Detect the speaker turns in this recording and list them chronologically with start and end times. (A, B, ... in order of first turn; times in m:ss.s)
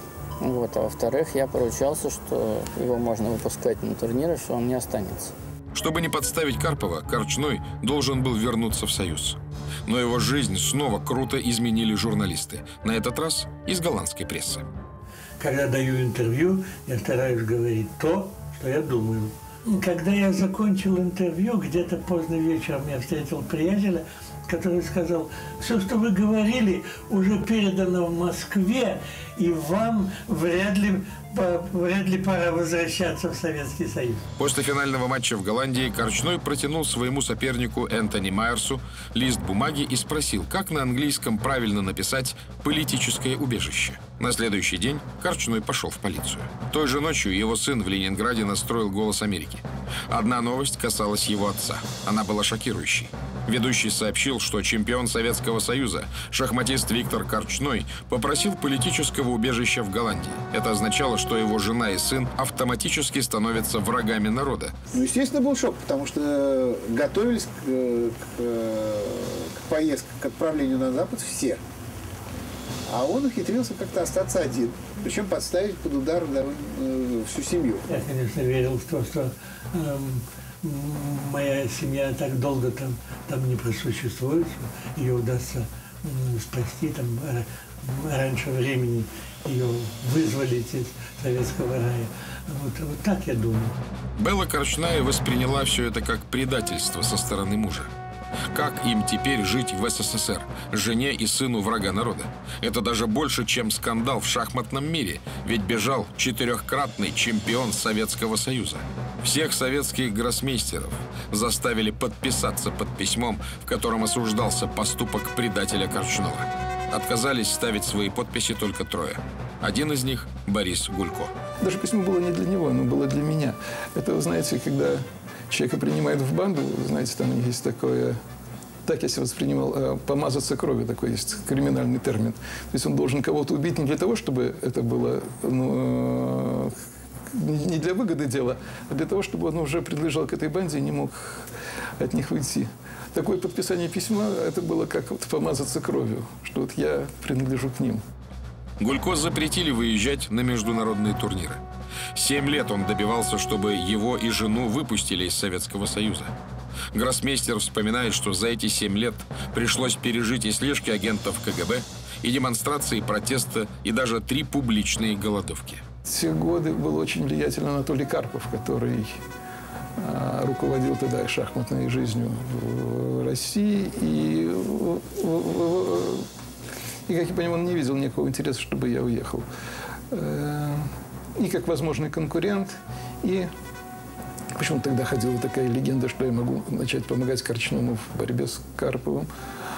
0:00.4-0:05.3 A
0:05.7-0:14.7 B
0:15.4-0:34.3 C
0:34.4-1:04.8 B
1:04.9-1:11.6 D
1:12.9-1:17.9 D
1:17.9-1:33.8 C
1:34.2-1:37.9 B
1:38.5-2:01.4 B
2:01.6-2:08.2 E
2:08.8-2:16.8 E
2:17.3-2:21.5 E
2:22.0-2:28.0 E
2:28.8-2:36.4 B
2:36.9-2:45.8 B
2:46.0-2:49.2 E
2:50.0-2:56.3 E
2:57.1-2:59.4 E
3:00.1-3:03.5 E
3:04.6-3:09.3 E